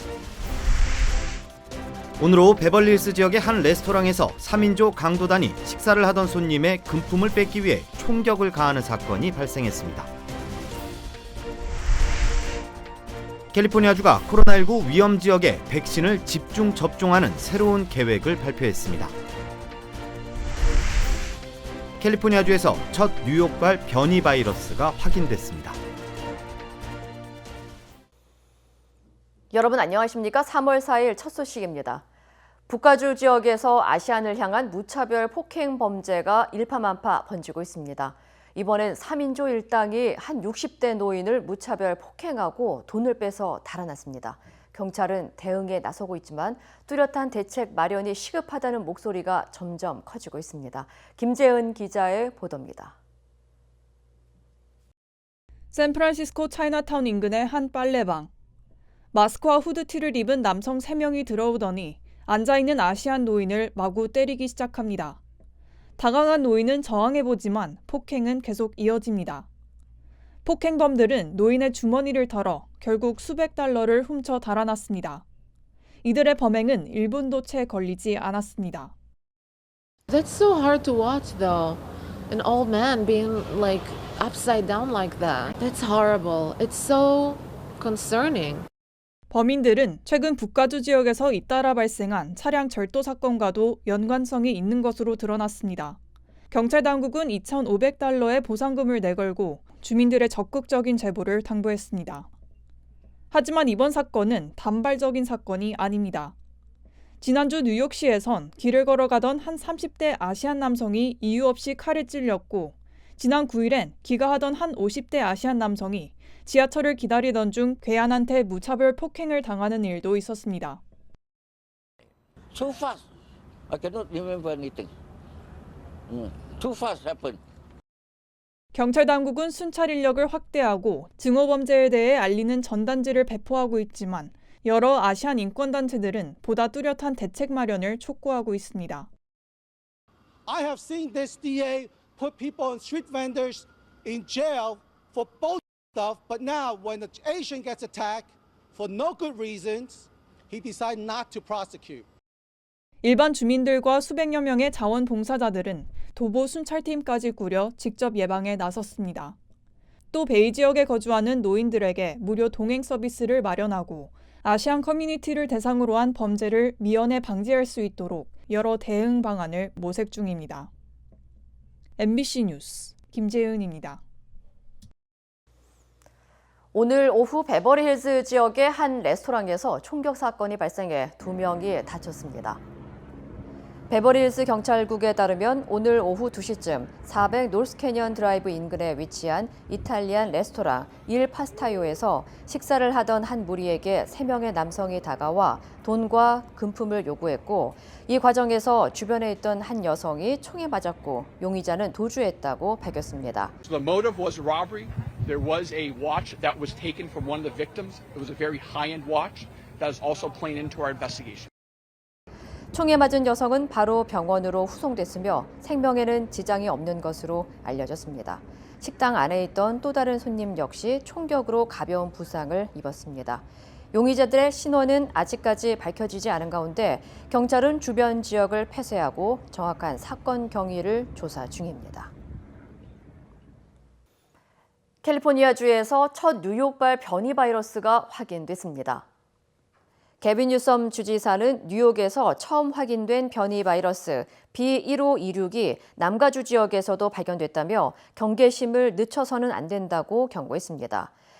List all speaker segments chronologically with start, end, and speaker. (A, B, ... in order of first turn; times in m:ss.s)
0:02.2-0:10.1 A
0:13.5-0:19.1 A
0:22.0-0:25.8 A
0:29.5-0:32.0 B
0:32.7-0:53.0 B
0:55.7-0:58.3 C
0:59.1-1:05.2 C
1:06.0-1:09.4 C
1:10.4-1:15.2 C
1:16.0-1:18.9 C
1:20.1-1:28.7 D
1:29.3-1:36.0 C
1:36.5-1:42.3 C
1:43.3-1:46.3 C
1:47.2-2:00.8 C
2:02.5-2:03.0 E
2:03.7-2:04.9 E
2:06.1-2:07.4 E
2:08.7-2:19.1 C
2:20.4-2:32.0 F
2:33.0-2:39.4 C
2:40.1-2:50.7 C
2:52.0-2:54.0 C
2:56.7-3:02.6 B
3:03.9-3:23.5 B
3:23.6-3:31.5 G
3:32.7-3:52.1 B
3:55.0-3:59.0 B
4:00.2-4:11.1 B